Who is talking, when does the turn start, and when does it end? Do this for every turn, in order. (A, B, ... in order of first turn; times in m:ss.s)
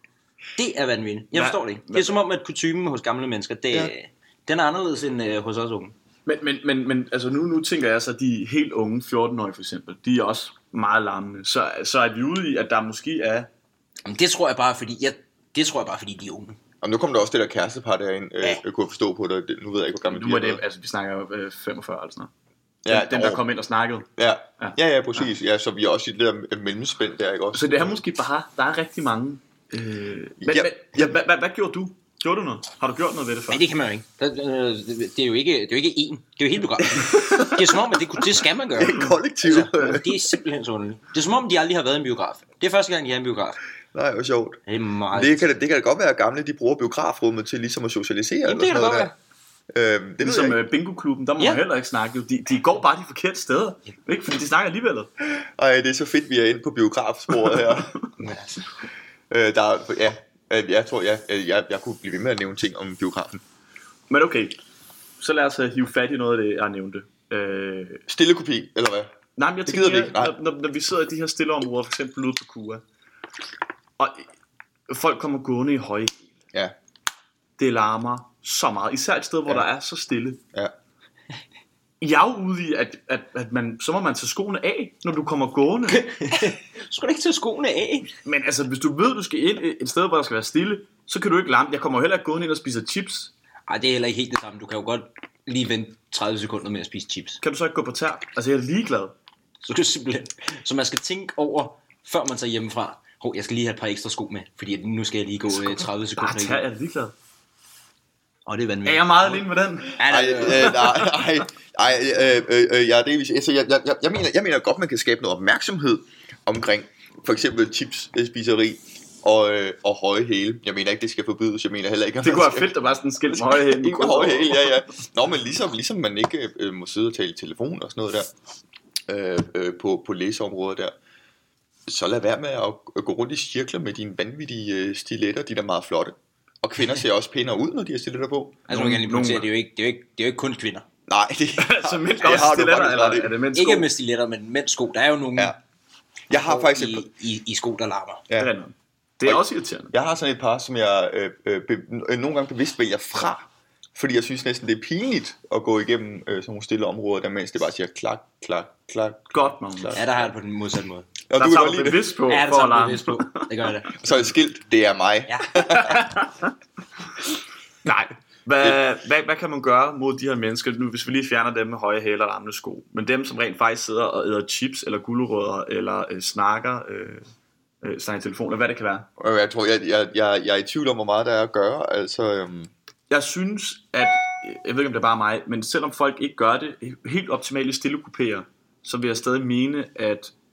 0:00.6-0:06.0 A
0:01.3-0:02.2 B
0:06.3-0:13.5 B
0:14.1-0:16.6 A
0:16.8-0:20.6 C
0:20.0-0:22.3 B
0:22.8-0:23.5 C
0:22.9-0:24.1 B
0:24.2-0:28.0 C
0:27.5-0:33.6 B
0:30.4-0:31.2 C
0:33.5-0:43.6 A
0:36.9-0:37.6 C
0:38.8-0:40.2 C
0:43.9-0:44.6 C
0:44.7-0:45.5 A
0:45.1-0:49.1 C
0:48.4-0:49.1 A
0:49.7-0:50.6 C
0:50.2-0:55.1 B
0:51.4-0:51.6 A
0:55.3-0:58.0 C
0:58.2-0:58.6 A
0:59.3-1:03.4 C
1:04.1-1:04.6 B
1:05.2-1:08.0 B
1:08.1-1:09.2 C
1:09.4-1:12.8 B
1:09.7-1:10.4 C
1:14.0-1:14.3 B
1:14.9-1:16.2 B
1:17.6-1:20.4 B
1:22.0-1:26.1 B
1:25.9-1:28.1 A
1:28.2-1:33.3 B
1:33.7-1:37.4 A
1:37.4-1:39.1 B
1:39.6-1:46.6 A
1:46.2-1:47.1 B
1:48.5-1:50.8 A
1:48.8-1:51.2 B
1:50.0-2:02.7 C
2:02.2-2:04.8 B
2:03.3-2:08.3 C
2:09.1-2:11.0 C
2:11.9-2:18.6 C
2:18.7-2:20.9 A
2:18.7-2:19.5 B
2:21.1-2:23.3 C
2:21.6-2:23.9 B
2:23.5-2:25.6 A
2:26.3-2:27.1 C
2:26.3-2:28.2 A
2:28.4-2:29.9 B
2:29.2-2:40.1 C
2:39.3-2:40.0 B
2:39.9-2:41.1 A
2:41.3-2:42.1 C
2:41.4-2:43.5 B
2:42.3-2:43.9 A
2:44.0-2:46.0 C
2:45.3-2:45.8 A
2:45.7-2:46.5 B
2:47.8-2:57.2 B
2:57.8-2:59.1 B
2:59.2-3:02.7 C
3:03.1-3:10.3 B